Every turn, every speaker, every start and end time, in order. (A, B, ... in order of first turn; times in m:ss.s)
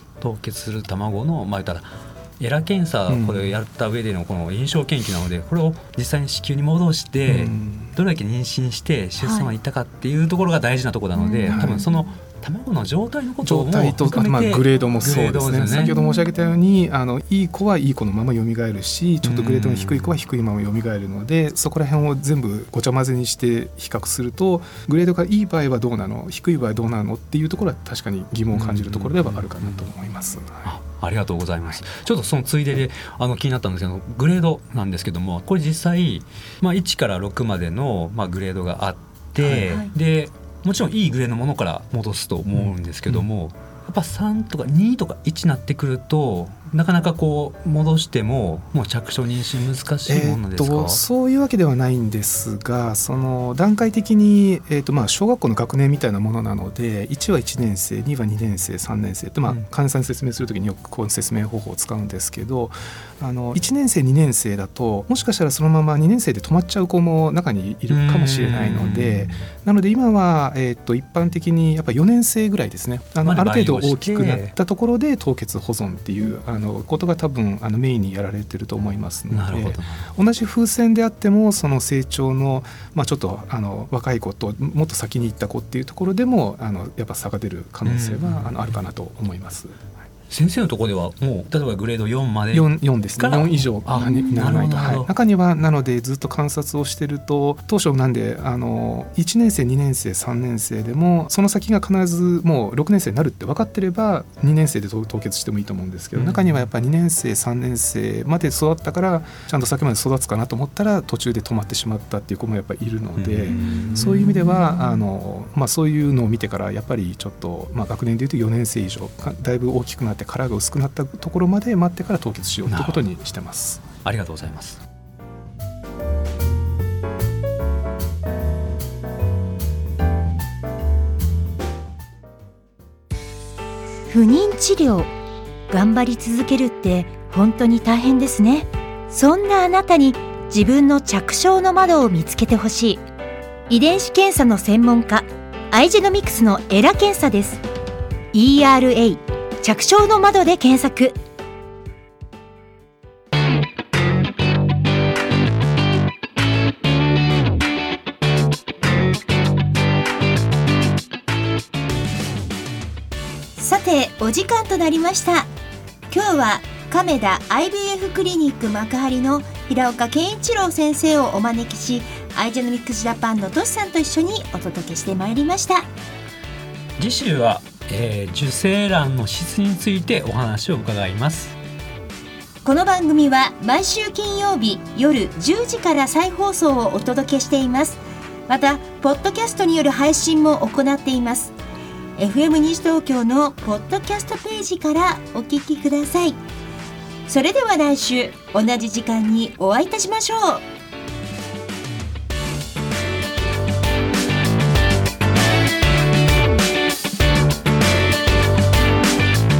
0:00.2-0:15.9 A
0:03.1-0:03.5 B
0:07.3-0:07.9 B
0:09.2-0:09.5 C
0:11.1-0:12.0 C
0:11.5-0:11.8 B
0:13.4-0:30.7 B
0:15.6-0:16.5 C
0:19.2-0:20.2 A
0:28.5-0:29.9 A
0:30.6-0:51.0 A
0:39.4-0:39.7 B
0:42.5-0:43.2 B
0:50.0-1:29.9 B
1:07.9-1:09.4 A
1:13.2-1:14.5 A
1:19.3-1:20.1 A
1:27.8-1:28.6 A
1:30.3-1:35.1 A
1:32.5-2:03.8 B
1:34.0-1:34.3 C
1:46.1-1:46.6 A
1:53.2-1:54.3 A
1:53.5-1:54.0 C
2:02.6-2:03.0 A
2:04.0-2:04.8 A
2:14.1-2:15.1 C
2:15.7-2:23.0 C
2:23.7-2:27.6 C
2:28.3-2:31.2 C
2:43.6-2:45.5 C
2:46.1-2:55.9 C
2:57.0-3:01.6 A
3:02.6-3:11.5 C
3:12.2-3:16.4 C
3:17.2-3:20.6 C